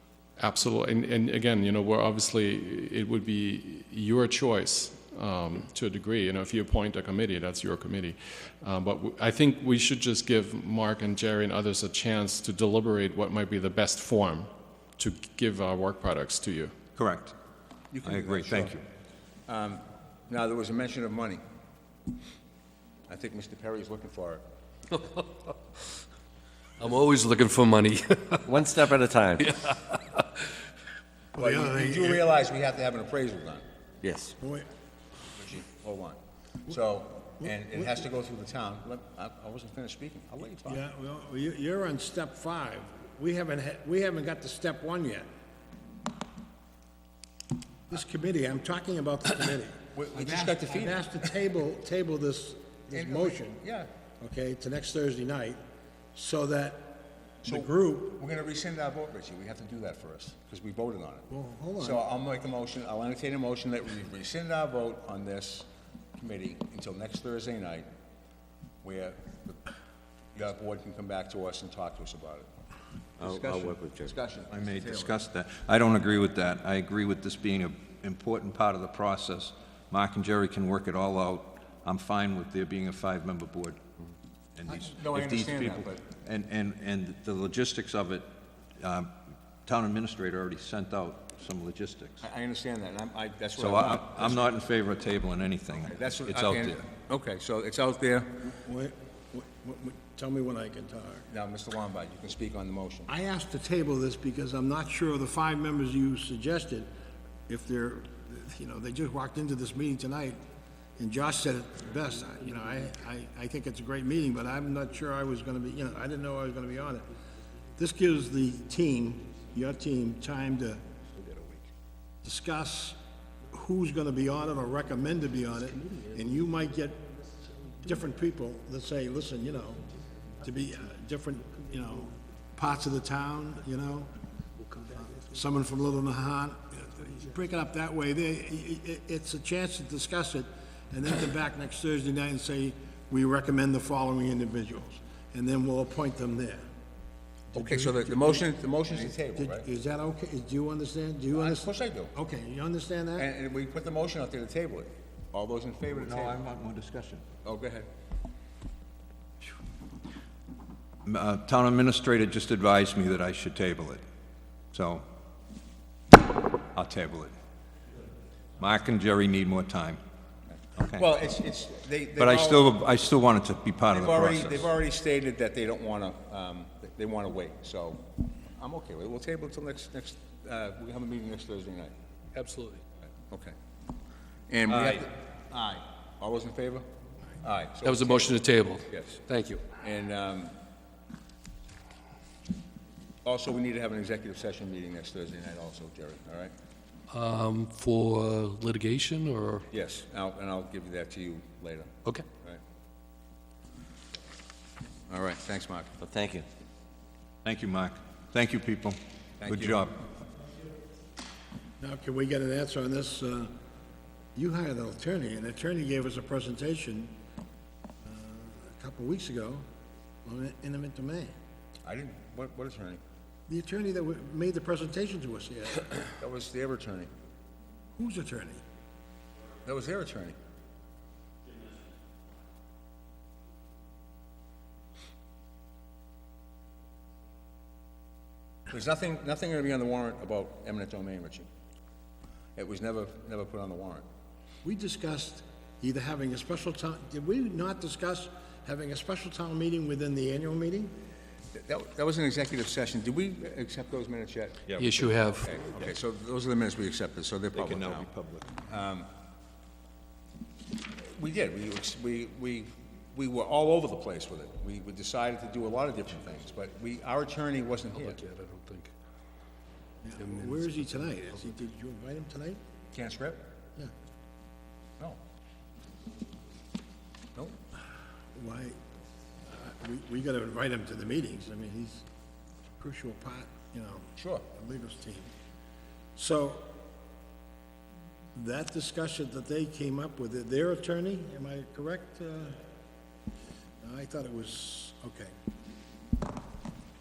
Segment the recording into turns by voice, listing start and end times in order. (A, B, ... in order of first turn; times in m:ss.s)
0:00.4-0:16.7 A
0:17.0-0:17.3 B
0:17.9-0:18.8 C
0:18.0-0:18.8 B
0:19.5-0:21.4 C
0:23.1-0:24.4 C
0:26.8-0:28.5 D
0:28.4-0:29.5 E
0:29.4-0:30.2 D
0:31.3-0:32.2 F
0:31.3-0:33.6 C
0:34.0-0:34.3 E
0:34.4-0:34.7 F
0:35.3-0:40.8 C
0:37.4-0:37.9 F
0:40.6-0:45.3 F
0:47.9-0:53.6 F
0:49.9-0:51.1 C
0:52.9-0:53.9 C
0:54.2-0:55.6 F
0:56.1-0:58.2 F
0:57.4-1:01.3 C
1:01.3-1:02.0 F
1:01.8-1:07.9 C
1:08.8-1:09.6 C
1:10.3-1:12.5 C
1:13.2-1:15.2 C
1:13.2-1:14.1 E
1:14.5-1:23.8 B
1:24.6-1:29.1 B
1:24.7-1:26.0 C
1:29.6-1:32.2 B
1:32.2-1:34.5 C
1:33.6-1:36.8 B
1:35.8-1:38.5 C
1:38.5-1:41.3 F
1:41.3-1:43.1 C
1:43.1-1:46.9 F
1:47.5-1:50.4 F
1:51.0-1:57.1 F
1:57.8-2:00.8 F
2:01.2-2:01.6 D
2:02.2-2:03.0 F
2:03.5-2:07.0 F
2:05.6-2:06.5 D
2:07.4-2:08.0 D
2:07.8-2:09.8 F
2:10.4-2:14.1 F
2:11.4-2:12.2 D
2:14.6-2:15.6 D
2:15.3-2:26.7 F
2:17.0-2:17.3 D
2:27.5-2:33.3 F
2:27.5-2:29.7 C
2:31.3-2:32.1 C
2:33.2-2:36.4 C
2:35.9-2:37.3 B
2:37.4-2:37.9 C
2:41.0-2:44.0 B
2:44.7-2:45.0 B
2:46.7-2:47.3 B
2:48.6-2:50.0 B
2:50.8-2:51.1 B
2:50.9-2:52.8 C
2:52.2-2:54.7 B
2:53.9-2:58.0 C
2:58.6-3:01.9 C
3:02.4-3:02.8 D
3:03.3-3:03.5 C
3:04.5-3:06.8 C
3:04.7-3:05.0 B
3:07.4-3:09.2 C
3:07.8-3:09.6 D
3:09.8-3:10.6 C
3:13.2-3:16.5 C
3:17.1-3:19.6 D
3:19.7-3:22.6 C
3:25.1-3:25.9 C
3:26.0-3:26.5 E
3:27.4-3:30.0 B
3:29.4-3:29.8 C
3:31.8-3:33.5 F
3:34.3-3:37.1 F
3:38.0-3:39.6 F
3:40.2-3:41.3 F
3:41.8-3:43.0 C
3:43.5-3:46.0 F
3:46.2-3:47.1 C
3:48.0-3:48.6 F
3:49.6-3:50.4 C
3:58.7-4:01.5 C
4:02.6-4:04.0 C
4:04.6-4:10.9 F
4:11.5-4:18.1 C
4:14.7-4:15.0 B
4:14.8-4:15.5 D
4:17.5-4:18.5 B
4:18.7-4:19.1 C
4:21.1-4:28.2 C
4:28.2-4:28.9 D
4:30.0-4:32.6 F
4:32.9-4:33.4 C
4:38.4-4:38.8 F
4:39.5-4:42.0 F
4:42.8-4:45.3 F
4:44.2-4:44.4 C
4:46.2-4:46.7 F
4:48.3-4:52.6 F
4:53.8-4:55.3 F